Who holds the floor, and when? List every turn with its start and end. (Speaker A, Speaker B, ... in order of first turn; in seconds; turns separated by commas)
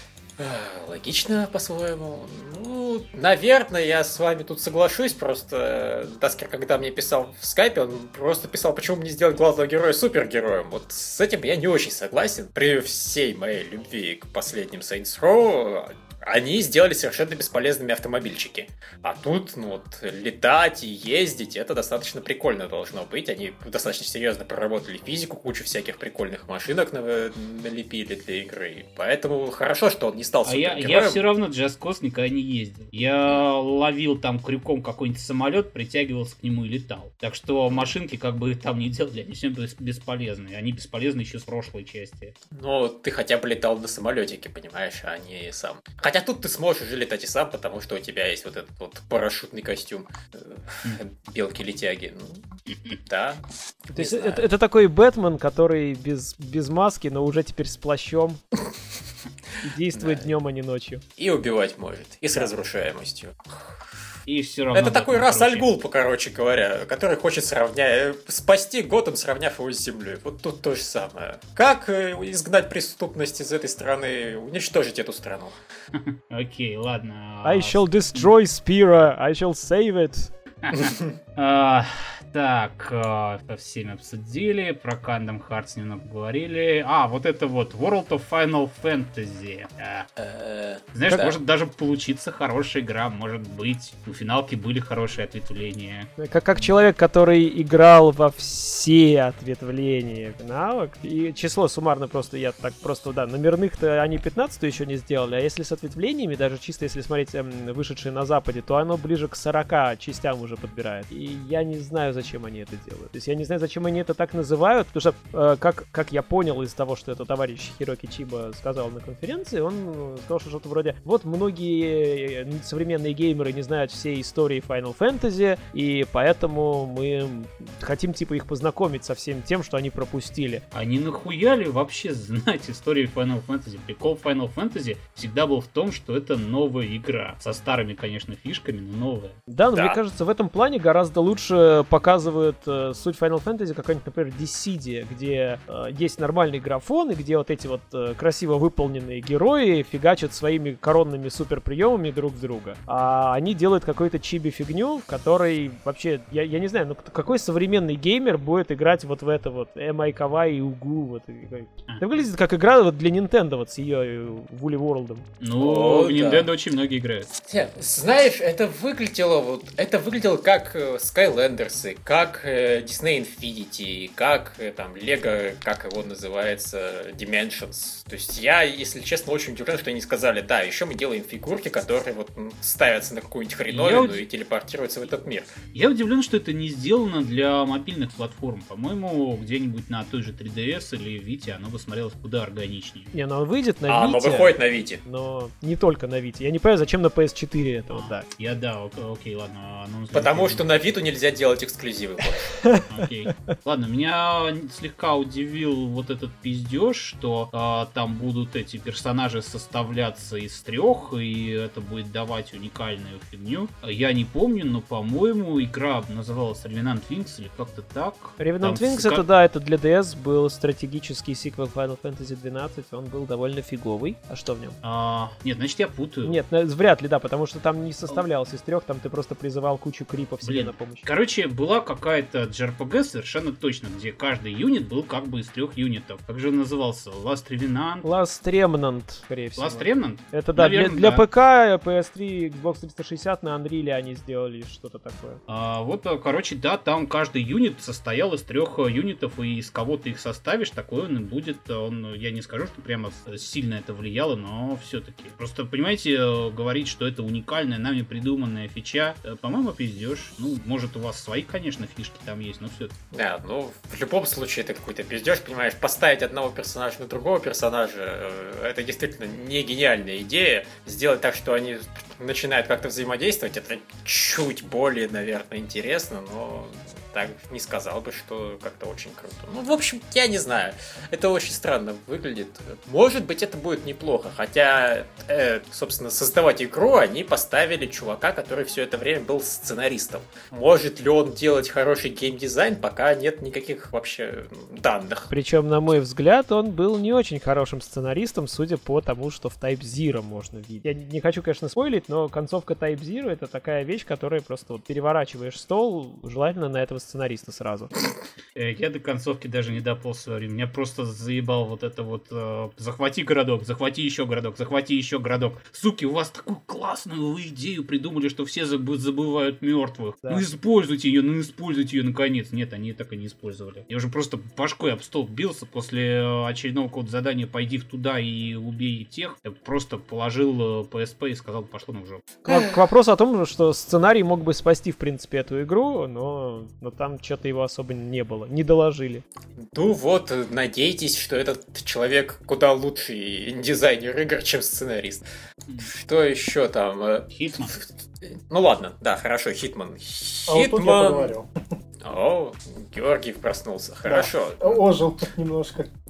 Speaker A: 0.4-31.2, Speaker B: 30.4-42.3, Speaker A: 42.5-52.4, Speaker A: 53.0-53.4, Speaker C: 53.9-58.4, Speaker A: 53.9-54.5, Speaker C: 59.6-61.0, Speaker A: 59.9-60.3, Speaker A: 61.2-63.6, Speaker B: 64.2-65.7, Speaker A: 64.7-75.5, Speaker B: 75.9-78.3, Speaker C: 77.4-80.3, Speaker B: 80.6-90.1, Speaker A: 80.7-81.1, Speaker A: 90.2-91.3, Speaker B: 90.9-96.1, Speaker C: 96.2-130.6, Speaker B: 130.7-139.4, Speaker C: 139.5-165.2, Speaker A: 139.7-140.0, Speaker B: 165.4-167.3, Speaker A: 165.6-166.5, Speaker A: 167.5-185.5, Speaker B: 183.7-184.2, Speaker B: 185.7-193.1, Speaker C: 193.1-198.2, Speaker A: 193.9-195.0, Speaker B: 197.9-200.8, Speaker A: 200.1-202.6, Speaker C: 202.6-203.5, Speaker B: 202.9-219.2, Speaker C: 218.4-224.8, Speaker B: 224.8-226.4, Speaker C: 226.2-231.1, Speaker B: 230.4-238.0, Speaker C: 238.0-245.4, Speaker B: 239.6-241.2, Speaker B: 245.5-262.9, Speaker A: 263.1-295.3, Speaker C: 295.3-307.9, Speaker B: 308.5-332.3, Speaker C: 332.4-339.2, Speaker A: 339.6-345.2, Speaker A: 345.8-351.3, Speaker B: 347.3-347.8, Speaker D: 350.5-351.5, Speaker A: 352.0-354.8, Speaker D: 354.0-355.9